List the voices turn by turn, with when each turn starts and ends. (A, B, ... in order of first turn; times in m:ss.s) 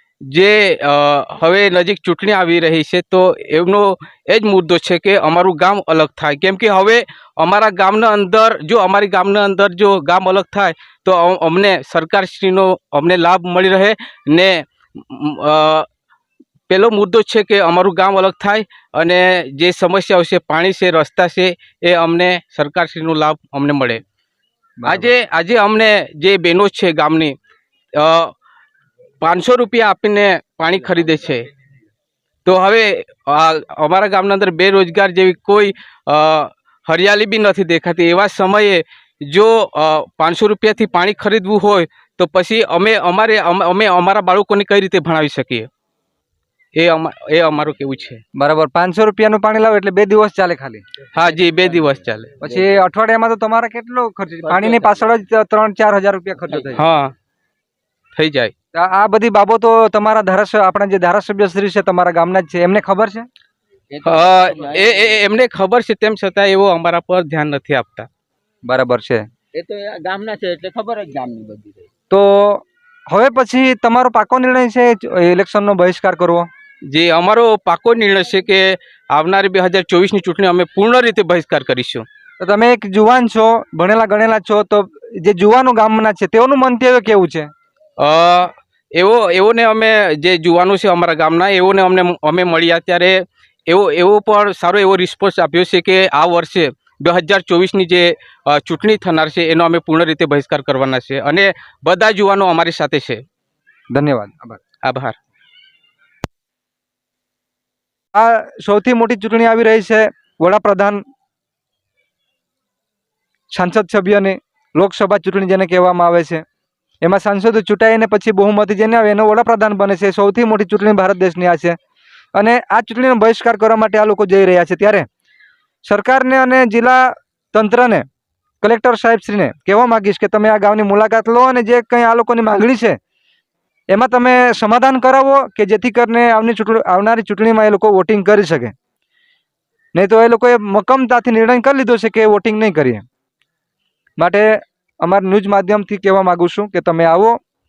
0:00.3-0:15.8 A
0:16.7-0:24.0 A
0:24.8-0:25.1 B
0:24.8-0:27.4 A
0:28.0-0:28.3 A
0:29.2-0:31.5 A
0:32.4-0:45.7 A
0:46.7-0:48.2 A
0:48.3-0:50.8 B
0:51.1-0:52.4 A
0:52.4-0:56.8 B
0:52.5-0:52.8 C
0:56.8-0:57.1 A
0:58.2-0:58.5 A
0:58.7-1:03.3 B
1:03.9-1:05.2 C
1:04.0-1:08.1 A
1:08.6-1:09.2 B
1:09.5-1:11.9 C
1:12.1-1:16.5 B
1:16.9-1:22.0 A
1:22.4-1:27.5 B
1:28.0-1:43.2 A
1:43.9-1:44.6 B
1:44.8-1:45.2 A
1:48.1-1:51.0 B
1:53.5-1:56.4 B
1:57.0-2:01.8 B
2:02.4-2:05.0 B
2:05.8-2:08.0 B
2:08.6-2:13.0 B
2:13.9-2:18.7 B
2:19.9-2:23.0 B
2:24.2-2:24.5 B
2:25.0-2:27.4 B